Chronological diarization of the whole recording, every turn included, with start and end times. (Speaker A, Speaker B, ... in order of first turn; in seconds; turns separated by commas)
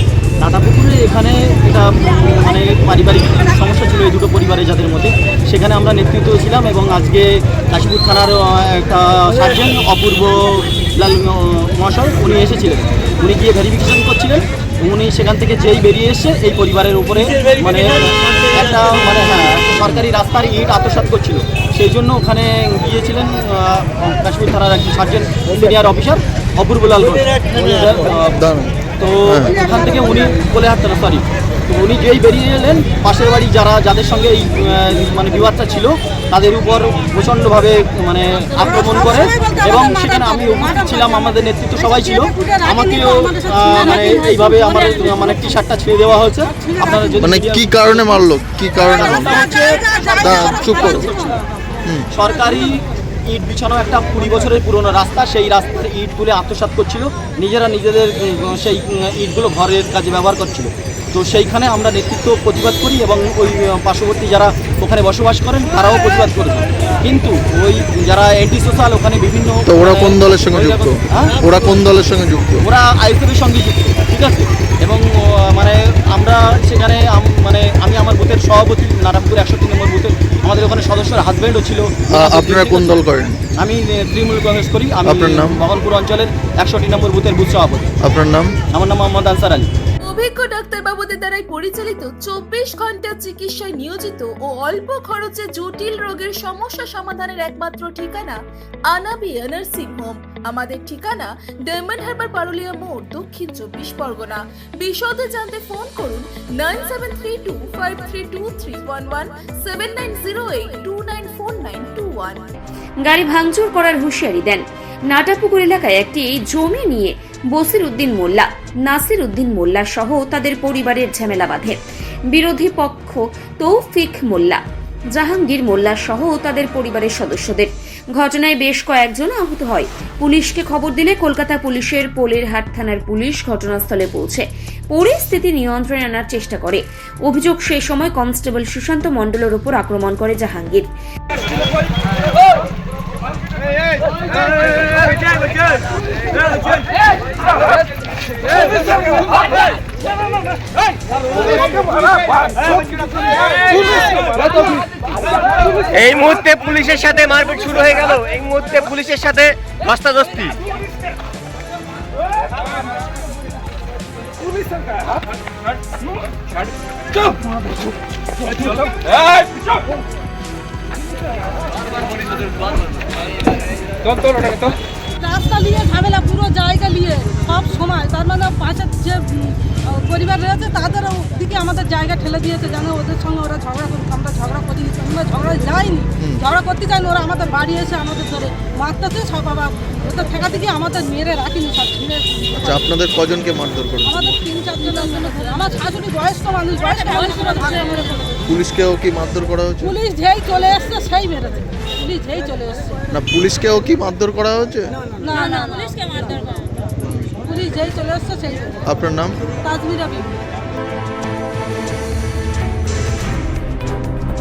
Speaker A: 0.4-28.3, Speaker B: 28.3-29.6, Speaker A: 29.0-48.2, Speaker B: 47.2-49.6, Speaker A: 48.9-51.4, Speaker B: 50.2-51.1, Speaker A: 52.1-71.3, Speaker B: 69.7-72.6, Speaker A: 72.6-83.0, Speaker B: 82.1-83.3, Speaker A: 83.6-87.9, Speaker B: 85.0-85.6, Speaker B: 88.0-88.5, Speaker A: 88.7-89.7, Speaker C: 90.0-112.5, Speaker D: 113.0-121.8, Speaker D: 122.3-140.9, Speaker E: 155.9-160.6, Speaker F: 175.2-192.8, Speaker B: 192.6-194.4, Speaker F: 194.1-198.4, Speaker B: 198.5-200.0, Speaker F: 199.8-202.9, Speaker B: 203.1-204.9, Speaker F: 205.2-206.1, Speaker B: 207.0-207.3, Speaker F: 207.5-208.8, Speaker B: 208.8-209.4, Speaker F: 209.6-210.3